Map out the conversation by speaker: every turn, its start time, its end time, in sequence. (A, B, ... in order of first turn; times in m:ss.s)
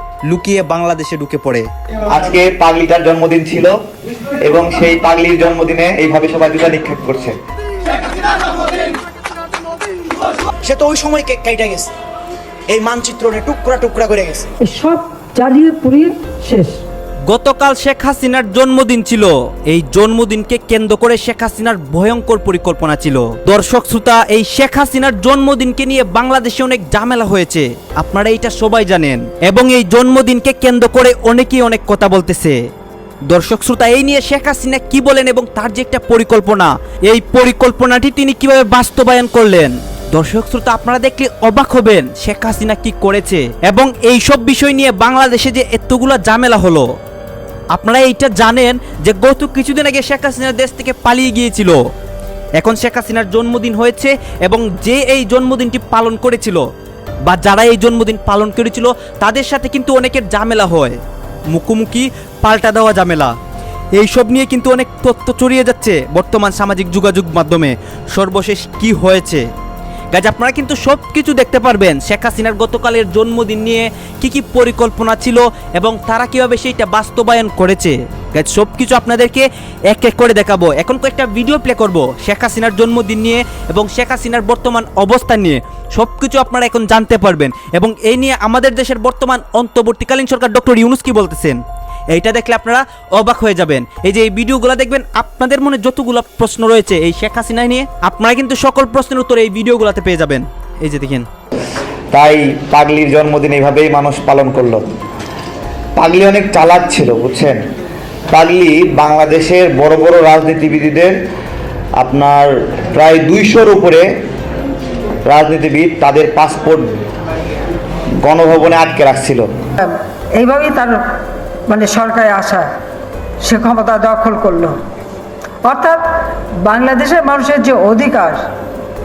0:00.3-0:01.7 A
0:02.1-0:03.8 B
0:04.4-0:07.3 B
0:10.6-0:11.9 C
0:12.7-0:14.5 C
0:14.6-0:16.8 D
0:17.3-0:32.6 A
0:33.3-0:46.9 A
0:47.7-0:51.8 A
0:52.6-0:56.6 A
0:57.3-1:01.0 A
1:01.5-1:03.3 A
1:04.0-1:09.4 A
1:10.1-1:31.6 A
1:32.1-1:41.3 A
1:42.1-1:44.8 B
1:46.0-1:47.6 B
1:48.3-1:51.1 B
1:52.0-1:54.1 B
1:55.3-1:56.9 B
1:58.2-1:59.5 B
1:59.8-2:01.0 D
2:01.7-2:02.7 D
2:03.4-2:04.8 D
2:05.6-2:06.0 D
2:06.6-2:08.4 D